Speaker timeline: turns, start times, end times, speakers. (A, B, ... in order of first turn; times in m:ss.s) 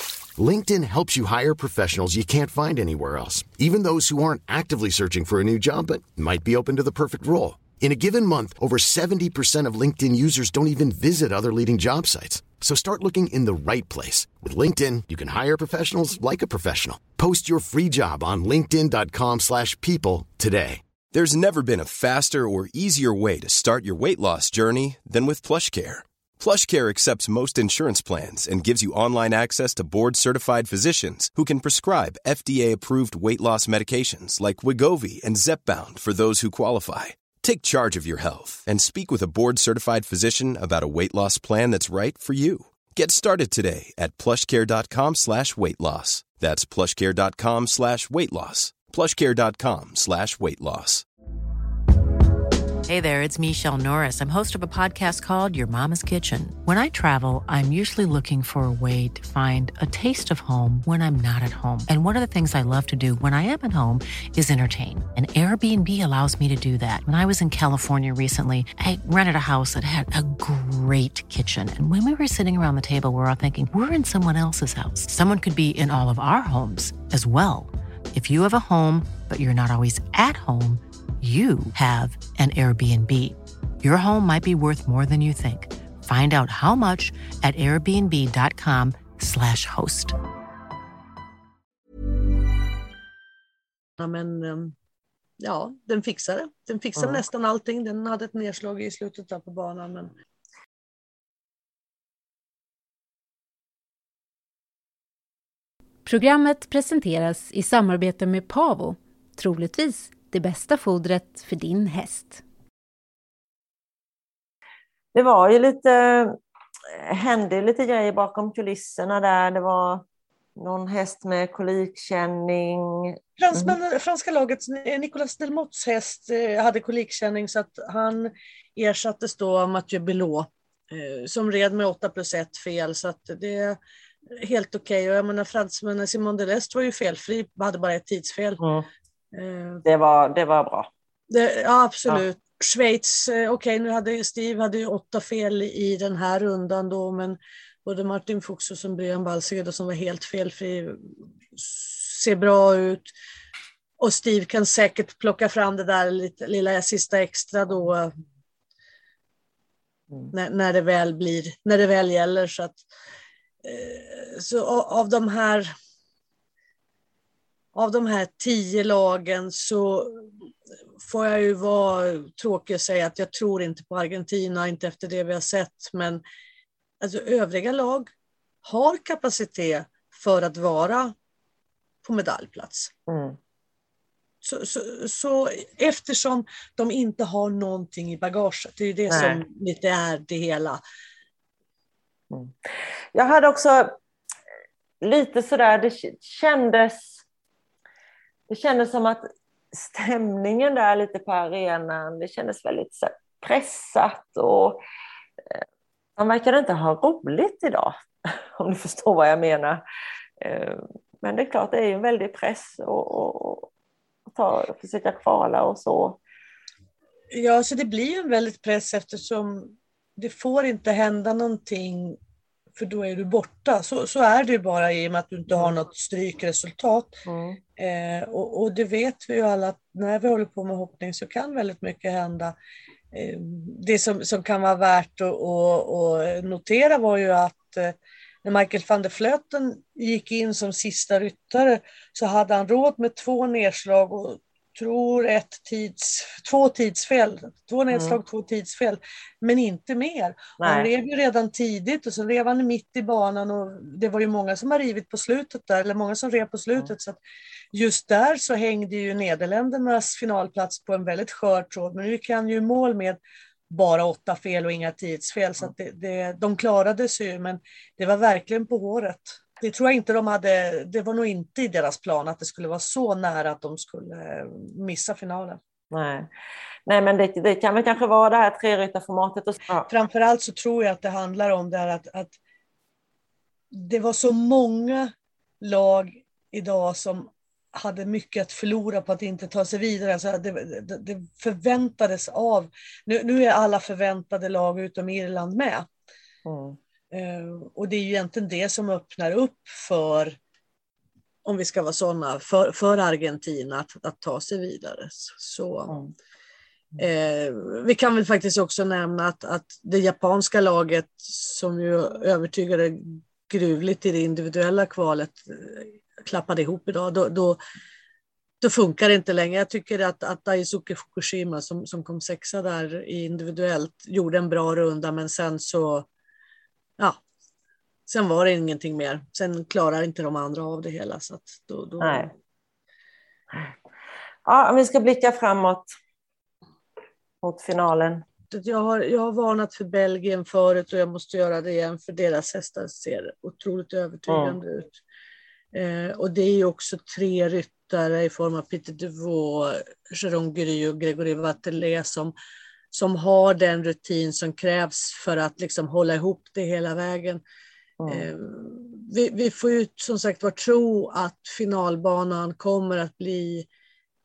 0:00.4-0:20.8 A
0:21.1-0:51.0 B
0:52.9-1:30.2 C
1:34.0-1:34.7 D
1:35.4-1:40.1 D
1:46.1-1:52.4 E
1:55.1-1:56.4 F
1:56.9-2:00.0 F
2:00.6-2:03.8 F
2:03.4-2:13.8 D
2:14.4-2:18.6 D
2:18.6-2:18.9 F
2:19.3-2:19.8 D
2:19.8-2:20.9 F
2:21.3-2:31.0 D
2:31.6-2:33.1 D
2:34.0-2:38.1 D
2:40.3-2:42.8 D
2:43.6-2:45.7 D
2:47.8-2:50.3 D
2:51.0-2:56.2 D
2:57.0-2:58.1 D
2:58.6-3:01.1 D
3:02.0-3:02.9 D
3:03.1-3:03.4 F
3:04.4-3:10.8 D
3:09.1-3:09.4 F
3:13.1-3:14.0 F
3:15.0-3:17.2 F
3:18.5-3:24.8 F
3:26.2-3:28.0 F
3:28.6-3:29.8 F
3:30.4-3:33.7 F
3:34.3-3:36.2 F
3:37.3-3:42.2 D
3:42.8-3:47.2 D
3:47.3-3:47.6 F
3:47.8-3:52.6 D
3:53.1-4:17.2 D
4:07.9-4:08.2 F
4:10.6-4:10.9 F
4:17.7-4:23.2 D
4:23.7-4:35.6 D
4:35.9-4:36.3 F
4:36.9-4:39.9 F
4:39.9-4:42.4 D
4:43.7-4:55.9 D
4:56.5-4:56.8 F
4:57.1-5:00.4 D
5:01.4-5:06.0 D
5:07.0-5:17.6 D
5:18.6-5:26.1 D
5:28.1-5:32.3 D
5:32.0-5:32.3 F
5:34.5-5:35.9 F
5:37.4-5:38.2 F
5:38.5-5:45.0 D
5:44.3-5:44.6 F
5:45.7-5:52.4 D
5:52.9-5:57.4 D
5:58.0-5:58.3 F
5:58.1-6:03.7 D